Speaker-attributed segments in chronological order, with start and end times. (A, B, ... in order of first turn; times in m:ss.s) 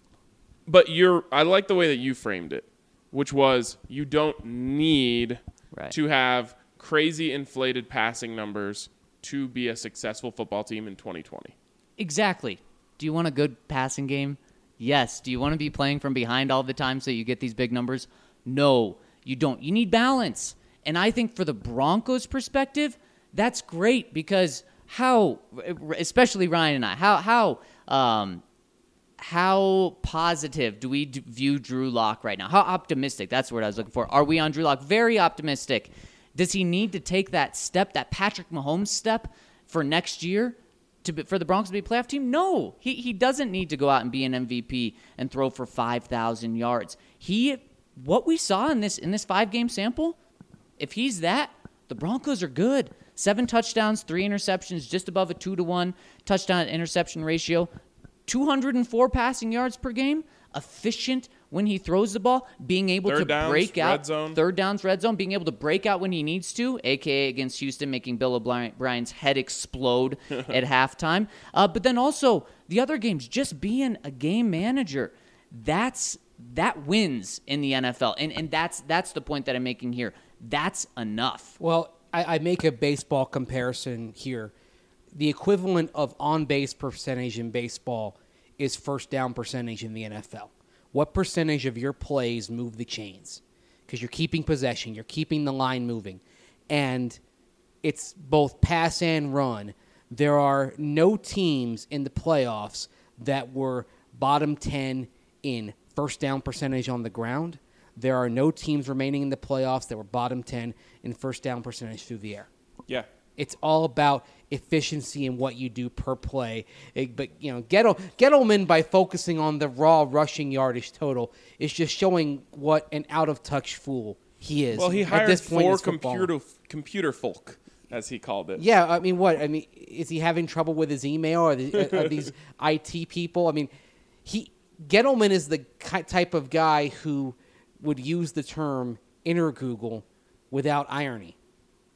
0:00.7-0:11.5 A
0:12.0-0:28.4 B
0:29.2-0:50.2 B
0:50.8-0:57.7 B
0:58.3-1:21.6 B
1:03.1-1:04.4 A
1:21.6-1:24.5 C
1:25.1-1:37.2 C
1:37.8-1:52.5 C
1:53.4-2:06.3 C
2:04.8-2:08.6 A
2:08.6-2:13.7 C
2:11.8-2:12.2 A
2:14.2-2:21.4 C